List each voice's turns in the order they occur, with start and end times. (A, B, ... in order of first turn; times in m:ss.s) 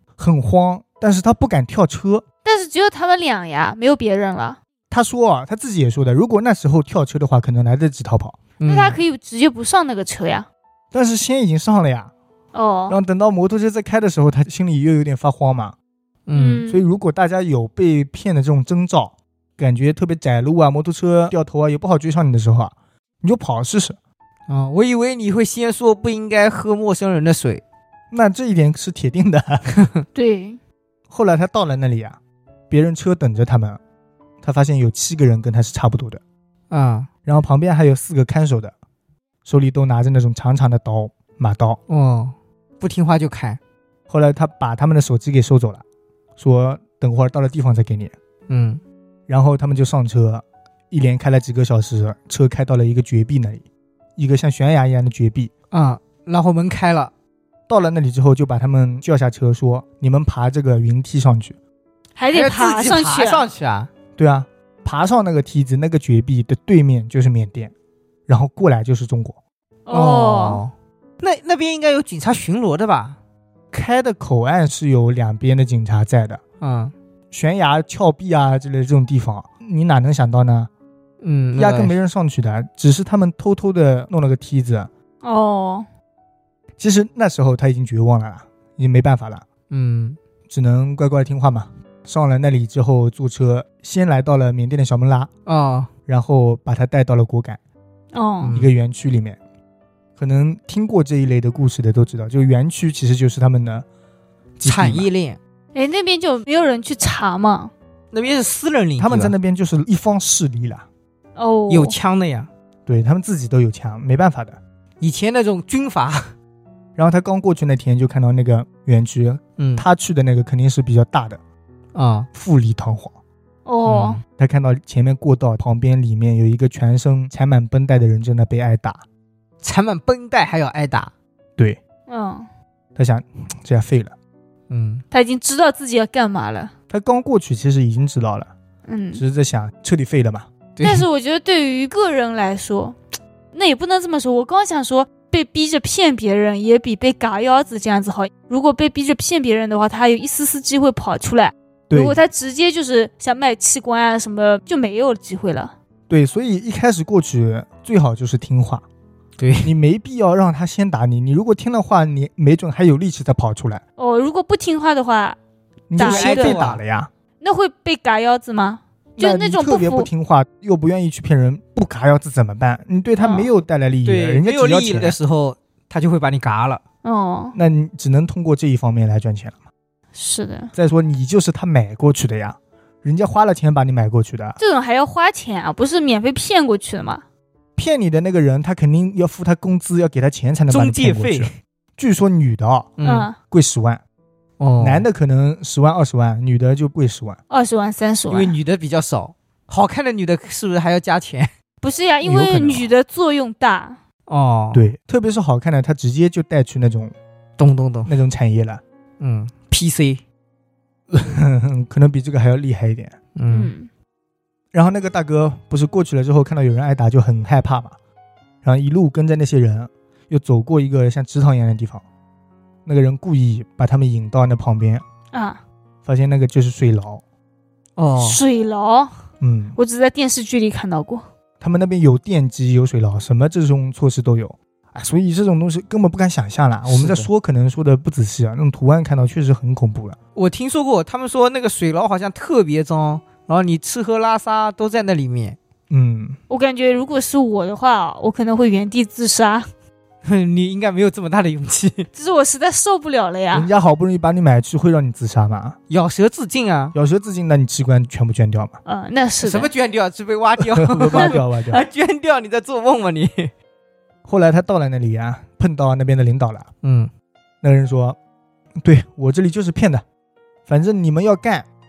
0:00.2-0:02.2 A
0:02.4-0:04.6 B
0:04.9-0:08.4 A
0:08.6-0:09.0 C
0:08.6-0:10.5 B
0:10.9-0:12.1 A
0:12.5-0:13.0 B
0:12.9-0:15.8 A
0:16.3-0:16.7 C
0:16.3-0:16.8 B
0:16.7-0:24.0 A
0:24.5-0:27.6 C
0:28.1-0:29.7 A
0:29.7-0:30.0 C
0:30.1-0:30.6 B
0:31.1-0:32.2 A
0:32.7-0:33.8 A
0:34.4-0:36.2 A
0:36.7-0:37.1 C
0:37.2-0:38.7 A
0:39.4-0:41.8 A
0:41.9-0:43.6 C
0:44.1-0:45.8 A
0:46.4-0:48.1 A
0:48.5-0:48.8 C
0:49.3-0:53.6 A
0:54.2-0:55.5 A
0:55.7-0:57.1 C
0:57.7-1:01.6 A
1:02.2-1:03.4 B
1:02.3-1:03.9 C
1:04.2-1:07.7 A
1:08.3-1:09.4 A
1:09.8-1:10.6 B
1:09.9-1:13.2 C
1:13.7-1:16.4 A
1:16.6-1:16.9 C
1:17.3-1:20.7 A
1:21.2-1:21.9 C
1:21.6-1:24.9 A
1:25.2-1:25.8 B
1:26.8-1:29.4 A
1:29.7-1:30.2 C
1:30.5-1:35.3 A
1:35.4-1:35.9 C
1:36.1-1:37.6 A
1:38.1-1:38.6 B
1:38.4-1:38.7 C
1:38.5-1:39.4 A
1:40.2-1:43.8 A
1:44.6-1:45.1 A
1:44.6-1:45.4 C
1:45.7-1:47.7 B
1:48.1-1:49.3 C
1:49.0-1:50.8 A
1:51.4-1:52.0 B
1:51.7-1:52.5 C
1:52.8-1:54.6 A
1:55.0-1:56.3 C
1:57.0-2:01.4 A
1:59.6-1:59.8 C
2:01.9-2:02.3 C
2:02.3-2:03.1 A
2:03.6-2:04.2 B
2:03.8-2:04.2 C
2:04.4-2:09.0 A
2:09.6-2:11.1 C
2:12.1-2:12.5 B
2:12.9-2:14.1 A
2:14.7-2:15.0 C
2:15.1-2:16.7 B
2:16.9-2:18.5 A
2:18.9-2:19.2 B
2:19.2-2:20.5 A
2:20.8-2:21.0 C
2:20.8-2:23.0 B
2:23.5-2:35.7 B
2:31.9-2:32.2 A
2:36.1-2:38.8 A
2:39.4-2:39.7 C
2:39.6-2:43.8 A
2:44.0-2:45.4 B
2:45.9-2:47.1 A
2:46.0-2:46.6 B
2:46.0-2:46.8 C
2:47.4-2:50.1 B
2:49.2-2:55.2 A
2:53.2-2:53.5 B
2:54.0-2:56.8 C
2:57.0-2:57.6 B
2:57.5-2:59.5 A
3:00.1-3:00.7 B
3:00.7-3:04.6 A
3:04.6-3:07.2 B
3:07.8-3:12.9 A
3:10.7-3:11.5 C
3:13.0-3:13.3 C
3:13.0-3:13.4 B
3:13.5-3:14.0 A
3:14.6-3:15.1 C
3:14.8-3:17.4 A
3:17.5-3:18.6 B
3:18.3-3:21.5 C
3:21.8-3:24.0 B
3:22.2-3:22.9 A
3:24.3-3:24.8 C
3:24.7-3:27.1 A
3:27.6-3:28.1 C
3:28.0-3:28.8 A
3:29.2-3:30.2 C
3:31.1-3:33.2 A
3:33.4-3:33.7 C
3:33.5-3:33.9 B
3:34.7-3:37.9 A
3:38.6-3:42.0 A
3:42.8-3:45.0 A
3:45.3-3:45.6 B
3:46.0-3:47.2 A
3:48.0-3:48.4 C
3:48.2-3:49.1 B
3:49.4-3:49.8 A
3:49.8-3:51.2 B
3:51.6-4:00.2 A
3:56.9-3:57.3 C
4:00.3-4:05.6 C
4:05.9-4:06.4 A
4:06.5-4:09.7 B
4:10.2-4:12.1 C
4:12.1-4:13.7 B
4:13.5-4:15.8 A
4:15.9-4:16.9 C
4:16.9-4:18.8 A
4:18.8-4:19.7 B
4:19.4-4:23.5 C
4:20.6-4:21.8 A
4:21.1-4:21.8 B
4:24.2-4:26.7 A
4:26.8-4:27.1 C
4:27.6-4:28.2 A
4:28.8-4:30.0 A
4:30.7-4:31.7 A